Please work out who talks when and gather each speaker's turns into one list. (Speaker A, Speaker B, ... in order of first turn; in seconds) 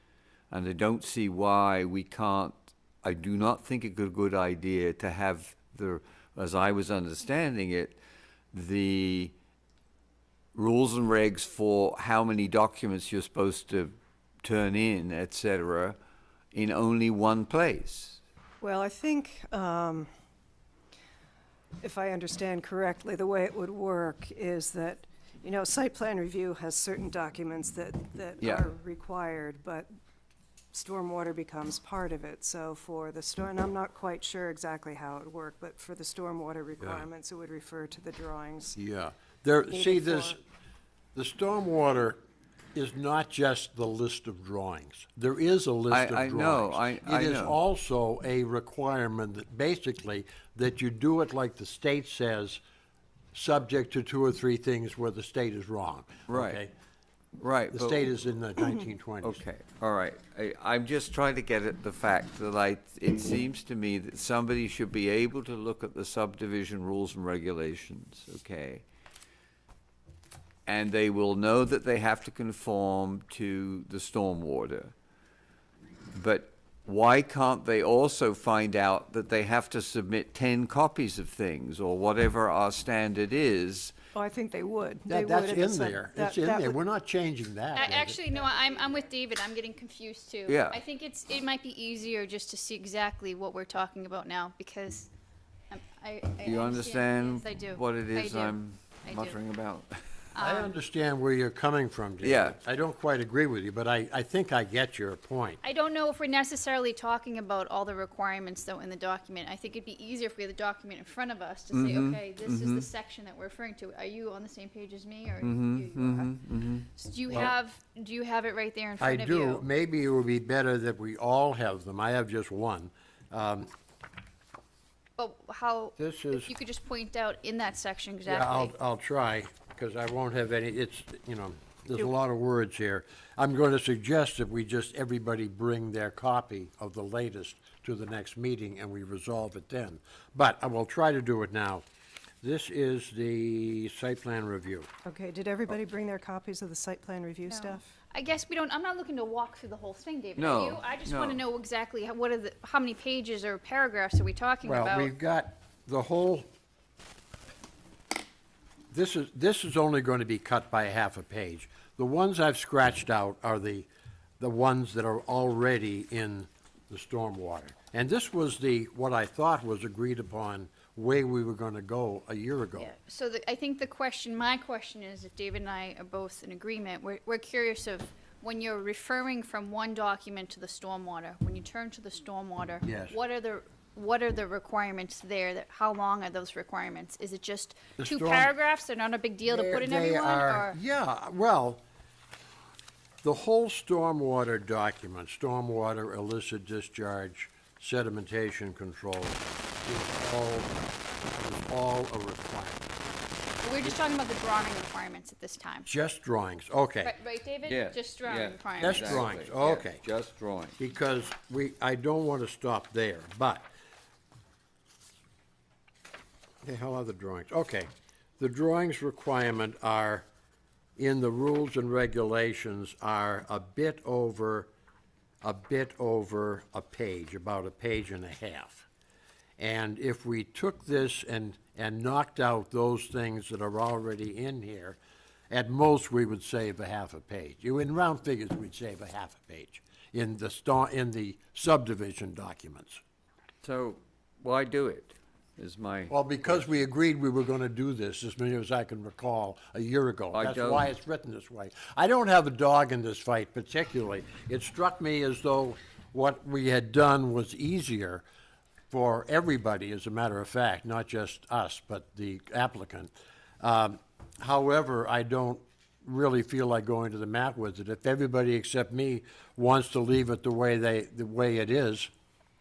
Speaker A: 0.5-8.0, 8.5-9.3, 10.5-16.0, 16.5-18.2, 28.4-28.7, 45.9-47.6, 56.3-56.6, 57.4-58.1, 59.2-68.8, 70.7-74.9, 76.1-83.9, 90.5-90.8, 96.4-100.0, 102.2-102.6, 111.7-112.9, 115.4-117.4, 150.4-151.4, 207.7-210.8, 243.6-246.6, 250.3-250.9
Speaker B: 18.6-20.1, 21.8-29.9, 30.7-38.8, 39.7-40.4, 84.1-86.8, 145.1-147.9
Speaker C: 38.8-40.4, 41.1-42.2, 42.8-52.6, 53.3-56.7, 57.7-59.4, 85.1-88.2, 100.4-105.6, 119.0-123.7, 126.0-126.5, 128.3-141.8, 142.4-144.9, 154.7-156.5, 158.9-163.9, 164.4-172.9, 182.8-183.2, 188.0-188.5, 189.5-191.8, 193.2-202.8, 205.9-207.1, 208.8-210.0, 210.8-213.7, 216.6-220.2, 221.0-224.7, 225.4-228.9, 229.6-235.0, 235.5-243.0, 246.1-258.2, 258.9-272.1
Speaker D: 87.8-95.1, 95.7-99.4, 100.3-100.7, 105.6-116.4, 116.9-119.7, 125.2-128.7, 147.5-155.1, 172.8-190.8, 203.6-205.9, 207.0-209.3